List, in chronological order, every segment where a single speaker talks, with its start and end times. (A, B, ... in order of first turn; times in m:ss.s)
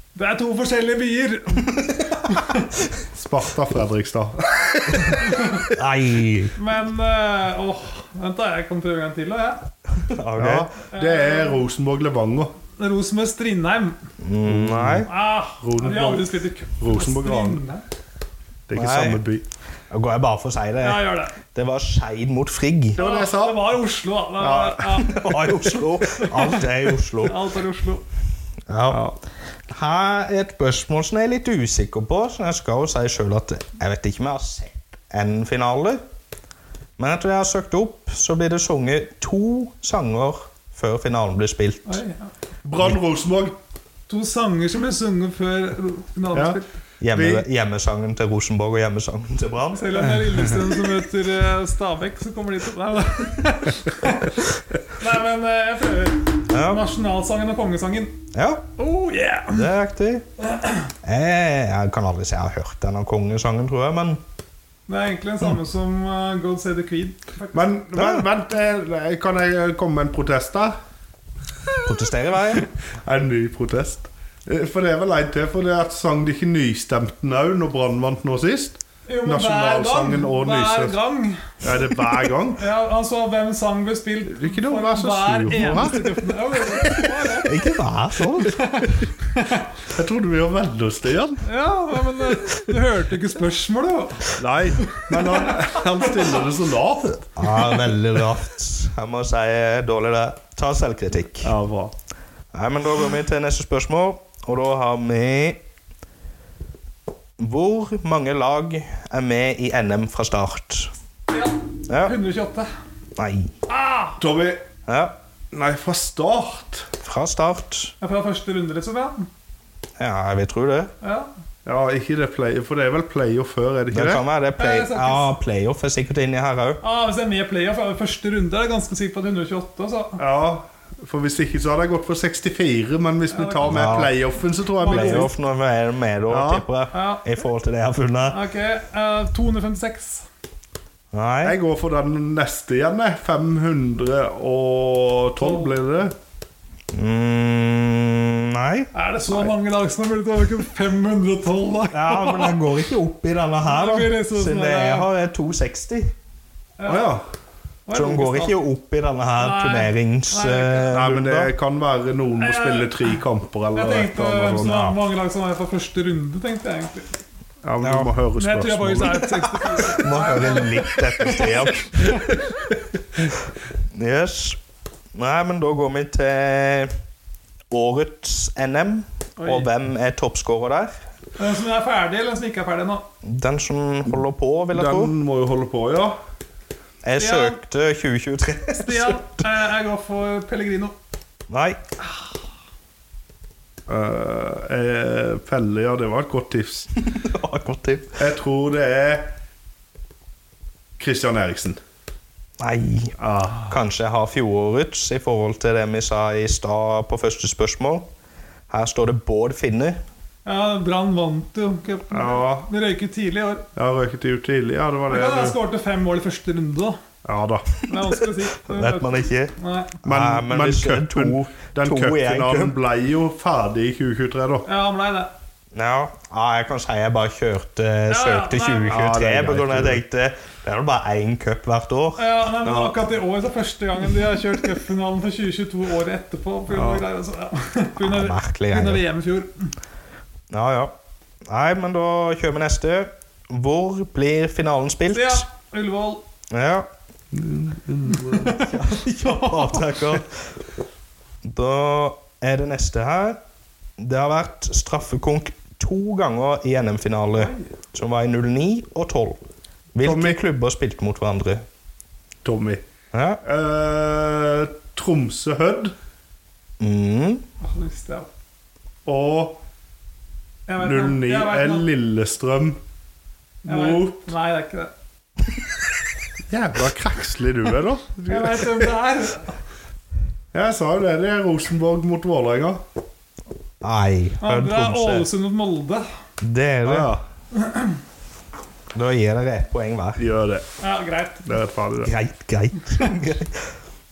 0:00.2-0:02.6 A
0:03.0-0:05.6 B
0:05.7-0:06.5 C
0:06.6-0:09.6 A
0:10.0-0:10.7 C
0:10.4-0:12.5 B
0:10.9-0:11.6 A
0:12.8-0:14.0 A
0:14.2-0:15.1 C
0:14.5-0:15.1 B
0:15.1-0:17.8 A
0:15.6-0:17.6 B
0:18.7-0:19.4 B
0:18.8-0:19.2 C
0:19.9-0:23.0 C
0:20.8-0:21.4 A
0:23.0-0:23.8 B
0:23.0-0:28.0 A
0:24.4-0:25.0 B
0:25.0-0:27.4 C
0:28.7-0:29.0 C
0:28.9-0:29.2 B
0:29.7-0:36.0 C
0:37.0-0:42.0 C
0:41.9-0:42.3 A
0:42.6-0:43.6 B
0:44.1-0:46.7 A
0:46.3-0:47.5 B
0:47.0-0:50.1 C
0:49.7-0:54.4 A
0:55.0-0:58.2 A
0:56.5-0:56.8 C
0:58.3-0:58.6 C
0:58.8-0:59.7 A
0:59.5-1:00.2 C
1:00.5-1:00.8 A
1:01.0-1:04.2 C
1:04.9-1:07.7 A
1:07.5-1:10.7 B
1:07.9-1:08.3 C
1:11.8-1:12.7 C
1:13.0-1:21.0 B
1:19.1-1:21.5 A
1:21.6-1:22.6 B
1:22.5-1:27.6 A
1:24.3-1:26.0 B
1:27.4-1:28.9 C
1:28.4-1:29.7 A
1:29.9-1:31.4 B
1:31.4-1:36.4 A
1:34.4-1:37.2 B
1:37.4-1:41.6 C
1:41.4-1:41.9 B
1:42.5-1:45.6 C
1:47.4-1:50.9 C
1:51.3-1:52.7 A
1:51.9-1:52.2 C
1:53.2-1:53.5 C
1:53.7-1:54.2 A
1:54.2-1:54.6 B
1:54.9-1:55.1 C
1:55.5-1:56.9 B
1:57.0-1:57.9 C
1:58.0-1:59.3 A
2:00.0-2:00.9 C
2:01.0-2:01.3 A
2:01.6-2:04.2 B
2:03.9-2:06.8 C
2:04.6-2:05.3 A
2:06.8-2:10.2 A
2:10.2-2:15.3 B
2:13.3-2:13.9 A
2:13.6-2:14.1 C
2:14.8-2:15.3 A
2:14.8-2:18.4 C
2:16.3-2:16.7 B
2:16.9-2:17.4 A
2:18.3-2:20.3 A
2:21.1-2:21.6 C
2:21.4-2:26.1 B
2:25.4-2:25.7 A
2:26.9-2:29.5 C
2:28.9-2:32.6 A
2:31.9-2:36.1 C
2:33.6-2:35.1 A
2:36.8-2:37.2 A
2:36.9-2:37.2 B
2:37.9-2:38.6 A
2:37.9-2:41.5 C
2:39.4-2:41.0 A
2:40.9-2:44.8 B
2:42.4-2:43.2 A
2:43.7-2:47.1 A
2:44.6-2:45.0 C
2:47.6-2:49.3 B
2:47.8-2:48.1 C
2:48.4-2:51.3 A
2:49.6-2:52.4 C
2:53.9-2:54.6 C
2:55.2-2:56.9 C
2:57.7-3:00.9 C
2:59.4-2:59.7 A
3:01.4-3:03.0 A
3:03.2-3:05.2 C
3:04.7-3:06.2 B
3:07.0-3:09.3 C
3:07.2-3:07.6 A
3:08.7-3:10.9 A
3:11.5-3:11.8 C
3:13.9-3:17.0 B
3:17.1-3:18.2 C
3:18.2-3:19.3 B
3:21.0-3:21.8 B
3:22.6-3:28.0 C
3:23.2-3:23.7 B
3:28.7-3:30.0 C
3:30.4-3:33.7 A
3:32.1-3:32.7 B
3:33.8-3:35.6 B
3:35.1-3:37.0 A
3:37.2-3:37.8 B
3:37.9-3:40.0 A
3:38.6-3:42.8 C
3:40.0-3:44.7 B
3:44.7-3:45.3 A
3:45.7-3:52.2 C
3:48.1-3:49.1 A
3:48.9-3:50.0 B
3:52.2-3:59.7 A
3:52.6-3:53.0 B
3:56.7-3:57.0 B
3:58.0-3:59.0 C
4:00.5-4:00.9 C
4:01.5-4:05.5 C
4:05.1-4:06.2 A
4:06.5-4:06.9 C
4:07.3-4:08.7 B
4:08.4-4:10.3 C
4:08.8-4:10.0 A
4:11.4-4:13.4 C
4:14.0-4:19.4 C
4:20.0-4:21.6 C
4:20.0-4:20.4 B
4:22.4-4:22.8 B
4:23.1-4:23.4 C
4:23.4-4:25.9 B
4:26.8-4:27.4 C
4:27.6-4:28.3 A
4:29.1-4:29.6 B
4:30.7-4:31.9 A
4:30.8-4:32.8 B
4:33.6-4:34.3 B
4:33.6-4:34.9 A
4:36.5-4:38.9 B
4:38.2-4:39.6 A
4:40.5-4:42.8 B
4:43.8-4:45.3 C
4:44.4-4:46.0 A
4:46.4-4:47.1 C
4:46.8-4:47.2 B
4:47.6-4:47.9 A
4:48.9-4:50.2 C
4:50.2-4:50.6 B
4:50.8-4:51.4 A
4:51.4-4:52.1 B
4:52.0-4:53.6 C